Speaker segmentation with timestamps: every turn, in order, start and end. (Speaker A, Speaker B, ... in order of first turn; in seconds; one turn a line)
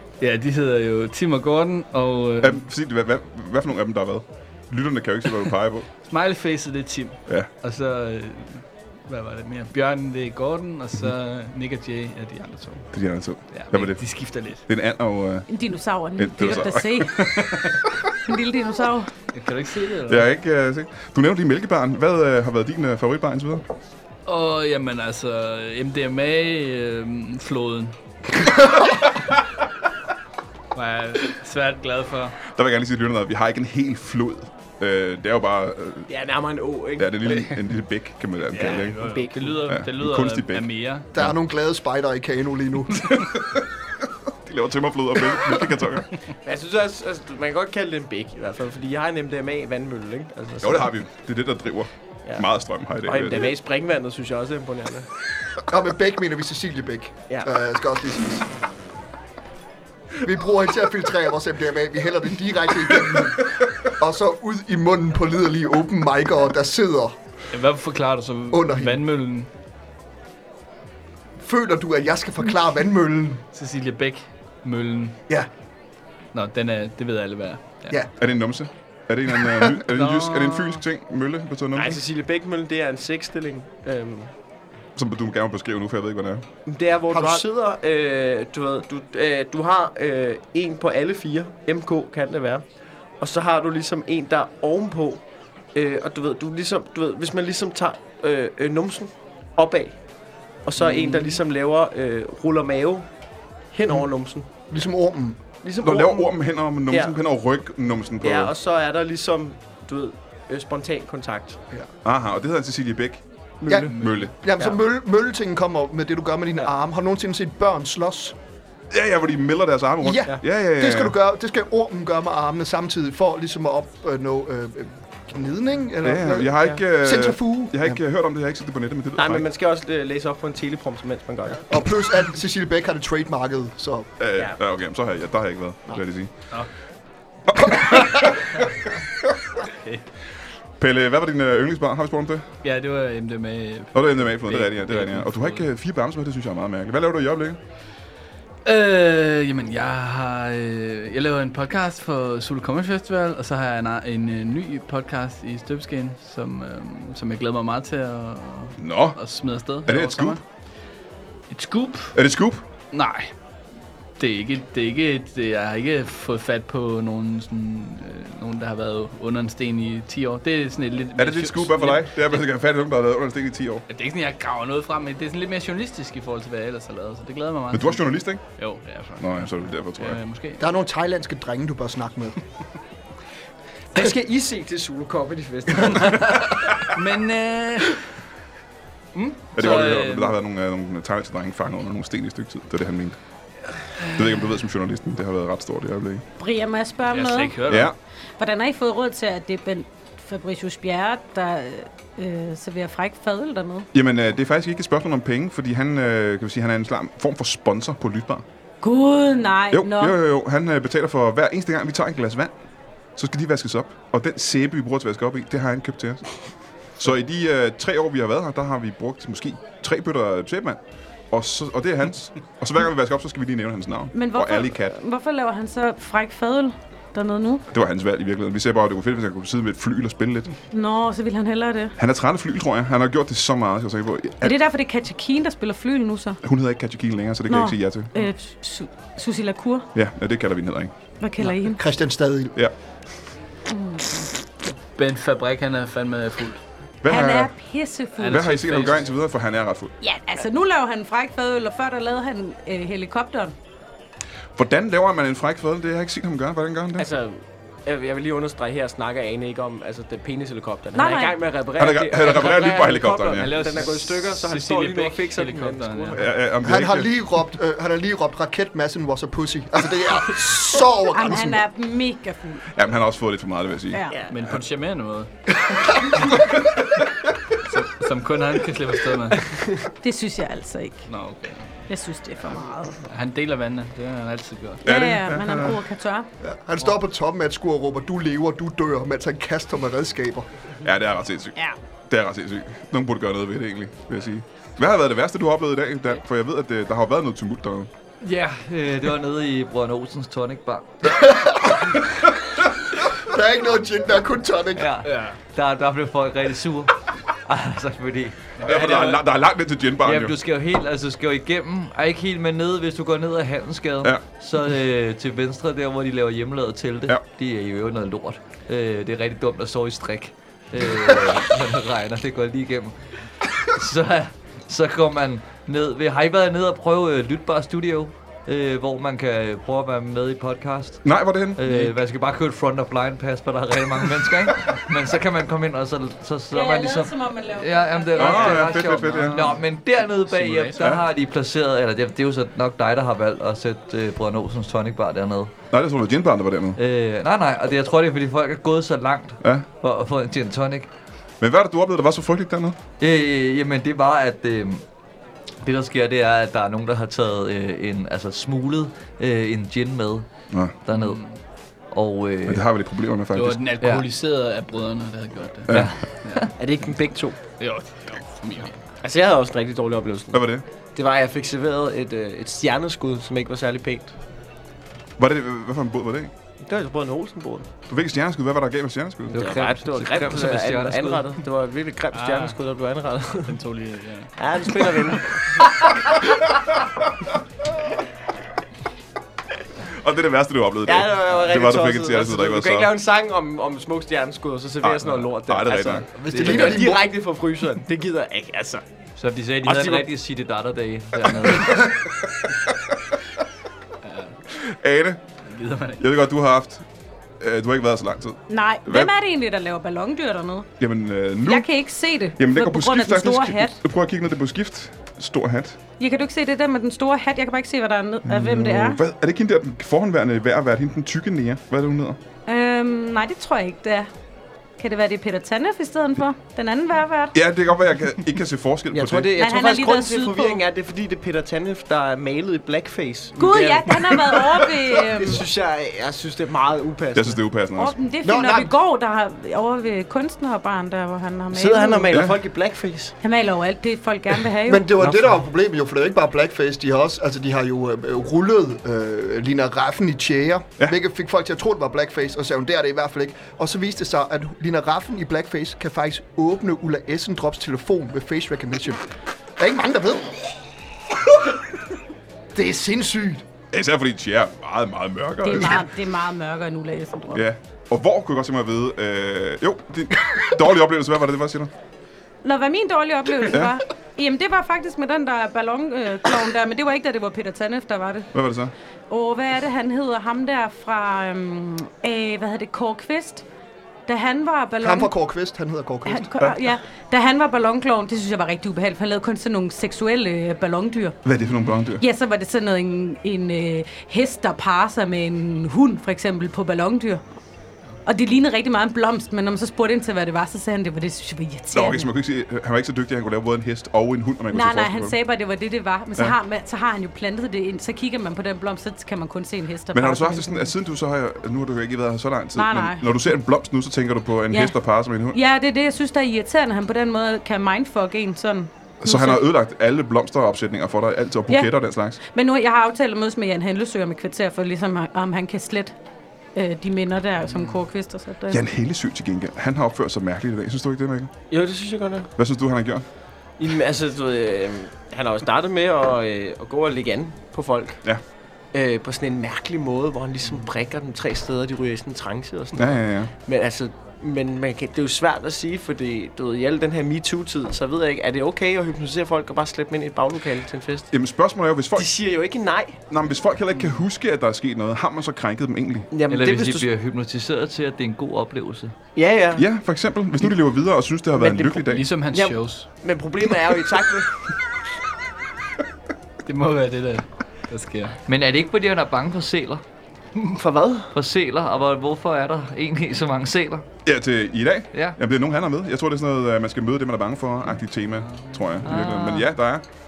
Speaker A: 0.2-2.6
Speaker B: 2.4-5.9
Speaker A: 6.0-12.9
Speaker B: 12.9-15.5
Speaker A: 13.5-14.6
Speaker C: 15.5-17.3
Speaker B: 16.2-18.1
Speaker C: 18.2-19.1
Speaker A: 19.3-20.2
Speaker B: 20.1-23.6
Speaker A: 24.2-28.0
Speaker A: 30.7-32.4
Speaker B: 32.5-36.1
Speaker D: 36.1-37.5
Speaker B: 37.0-39.0
Speaker D: 38.5-39.5
Speaker A: 38.6-41.1
Speaker B: 39.6-41.3
Speaker E: 41.1-43.1
Speaker B: 43.1-43.6
Speaker B: 44.4-46.1
Speaker D: 46.4-50.9
Speaker B: 50.6-53.5
Speaker D: 53.0-55.1
Speaker E: 55.7-58.5
Speaker E: 60.2-67.2
Speaker A: 67.5-69.5
Speaker E: 68.5-69.0
Speaker E: 71.4-73.4
Speaker A: 73.5-75.2
Speaker A: 76.3-78.0
Speaker B: 78.2-82.0
Speaker A: 79.9-80.8
Speaker D: 81.7-84.3
Speaker B: 85.0-86.4
Speaker D: 86.7-92.6
Speaker E: 87.1-87.4
Speaker D: 93.2-95.2
Speaker D: 95.7-100.0
Speaker D: 100.6-103.1
Speaker D: 103.7-104.5
Speaker E: 104.7-105.4
Speaker D: 105.6-106.3
Speaker B: 105.8-108.5
Speaker D: 106.9-107.2
Speaker D: 108.2-111.6
Speaker B: 112.0-114.3
Speaker E: 113.7-118.3
Speaker A: 113.7-114.3
Speaker B: 118.9-121.2
Speaker E: 120.0-128.0
Speaker B: 126.0-129.4
Speaker D: 129.2-131.7
Speaker E: 131.7-134.1
Speaker B: 134.2-136.3
Speaker B: 137.5-138.4
Speaker A: 139.7-140.0
Speaker B: 140.8-142.4
Speaker A: 142.6-145.7
Speaker B: 143.9-147.6
Speaker A: 148.6-160.4
Speaker B: 158.8-159.2
Speaker B: 159.8-160.4
Speaker A: 161.5-162.1
Speaker B: 162.1-162.6
Speaker A: 162.9-163.3
Speaker A: 164.2-172.4
Speaker B: 171.2-173.8
Speaker A: 173.9-180.6
Speaker B: 177.7-178.5
Speaker B: 179.2-180.2
Speaker E: 180.6-182.4
Speaker D: 183.9-186.5
Speaker A: 185.9-188.0
Speaker A: 189.1-190.4
Speaker B: 189.5-193.2
Speaker B: 194.1-196.2
Speaker C: 196.4-197.6
Speaker A: 197.1-197.9
Speaker B: 197.7-197.9
Speaker C: 198.4-203.9
Speaker B: 203.9-208.4
Speaker C: 208.8-210.2
Speaker B: 209.7-212.5
Speaker B: 213.2-216.4
Speaker B: 216.9-220.8
Speaker B: 221.3-224.9
Speaker C: 224.1-227.6
Speaker B: 227.7-230.5
Speaker C: 230.7-231.9
Speaker B: 232.0-234.5
Speaker C: 234.4-236.4
Speaker B: 236.4-238.1
Speaker C: 237.5-239.9
Speaker B: 239.9-240.9
Speaker C: 241.2-241.8
Speaker E: 241.4-242.5
Speaker C: 243.7-244.3
Speaker A: 244.9-246.6
Speaker B: 247.0-247.5
Speaker C: 247.1-248.5
Speaker A: 248.2-249.1
Speaker B: 248.3-249.9
Speaker C: 250.0-253.5
Speaker B: 254.6-257.1
Speaker D: 257.0-266.2
Speaker C: 260.9-261.4
Speaker B: 261.8-263.5
Speaker A: 263.4-266.2
Speaker B: 266.1-267.1
Speaker E: 266.6-271.6
Speaker C: 271.1-272.6
Speaker B: 272.8-274.6
Speaker C: 273.9-274.2
Speaker A: 274.3-275.3
Speaker A: 275.9-276.5
Speaker A: 277.7-279.5
Speaker C: 280.0-281.1
Speaker A: 281.1-281.8
Speaker C: 281.9-283.1
Speaker A: 283.0-284.8
Speaker B: 284.8-285.8
Speaker C: 284.8-286.3
Speaker E: 286.4-290.5
Speaker B: 290.8-291.6
Speaker B: 292.1-297.9
Speaker F: 298.2-301.2
Speaker E: 301.1-301.9
Speaker E: 303.2-304.9
Speaker F: 304.7-308.7
Speaker A: 305.0-305.4
Speaker A: 308.6-309.2
Speaker B: 308.6-310.3
Speaker F: 310.0-345.5
Speaker B: 331.0-331.6
Speaker A: 331.6-331.9
Speaker C: 336.5-338.6
Speaker B: 338.1-339.5
Speaker A: 338.4-339.6
Speaker A: 340.2-341.0
Speaker B: 345.7-346.8
Speaker F: 346.8-350.9
Speaker B: 351.4-352.8
Speaker F: 353.0-354.8
Speaker F: 355.6-360.3
Speaker F: 360.9-361.3
Speaker A: 360.9-361.4
Speaker F: 361.9-362.6
Speaker B: 362.5-363.7
Speaker A: 363.3-366.5
Speaker F: 365.7-366.5
Speaker D: 366.6-367.4
Speaker A: 367.6-368.8
Speaker D: 369.0-374.1
Speaker B: 370.3-370.6
Speaker B: 375.2-376.3
Speaker D: 376.6-377.7
Speaker B: 377.9-379.4
Speaker F: 379.3-381.2
Speaker D: 379.3-383.6
Speaker A: 382.1-382.6
Speaker A: 383.4-384.8
Speaker D: 384.4-385.8
Speaker B: 389.9-392.9
Speaker D: 390.8-398.8
Speaker B: 394.8-396.1
Speaker F: 396.2-396.9
Speaker E: 396.3-397.0
Speaker F: 399.2-401.9
Speaker D: 399.6-400.1
Speaker A: 404.0-404.3
Speaker B: 404.5-405.2
Speaker A: 405.5-406.0
Speaker B: 406.0-406.9
Speaker B: 407.4-409.1
Speaker C: 408.5-410.7
Speaker B: 410.8-411.7
Speaker C: 411.4-413.8
Speaker B: 412.4-415.8
Speaker C: 416.0-419.0
Speaker B: 418.2-422.2
Speaker C: 422.5-424.1
Speaker C: 424.8-427.4
Speaker B: 427.3-429.3
Speaker D: 428.9-437.6
Speaker C: 429.3-430.6
Speaker C: 433.4-435.4
Speaker B: 437.1-438.0
Speaker C: 437.8-442.2
Speaker E: 438.2-438.7
Speaker D: 441.5-443.2
Speaker B: 442.1-442.4
Speaker C: 443.2-444.9
Speaker E: 444.7-459.1
Speaker D: 445.0-445.4
Speaker E: 459.6-460.6
Speaker E: 462.5-463.4
Speaker B: 463.7-465.9
Speaker C: 465.4-467.4
Speaker B: 467.3-471.7
Speaker C: 472.4-478.3
Speaker B: 478.3-478.7
Speaker C: 479.1-483.4
Speaker C: 484.1-485.1
Speaker E: 484.8-486.3
Speaker C: 486.1-491.2
Speaker B: 491.2-492.0
Speaker C: 492.0-497.2
Speaker C: 498.0-502.1
Speaker B: 501.7-505.2
Speaker C: 504.5-510.7
Speaker B: 509.9-515.4
Speaker C: 512.5-513.1
Speaker C: 514.5-519.4
Speaker B: 519.0-522.2
Speaker C: 522.3-525.9
Speaker C: 526.5-528.6
Speaker B: 528.5-531.3
Speaker D: 531.5-532.3
Speaker B: 532.4-533.0
Speaker D: 533.6-538.0
Speaker D: 538.7-551.1
Speaker B: 542.8-543.3
Speaker B: 551.1-552.1
Speaker D: 552.0-553.0
Speaker B: 553.1-556.1
Speaker D: 556.1-556.9
Speaker F: 556.3-558.9
Speaker D: 559.1-559.6
Speaker B: 559.5-562.0
Speaker D: 561.4-564.4
Speaker A: 561.8-562.9
Speaker A: 566.4-568.2
Speaker F: 568.2-569.8
Speaker D: 570.4-571.1
Speaker F: 571.1-573.9
Speaker B: 574.0-579.8
Speaker F: 578.8-579.5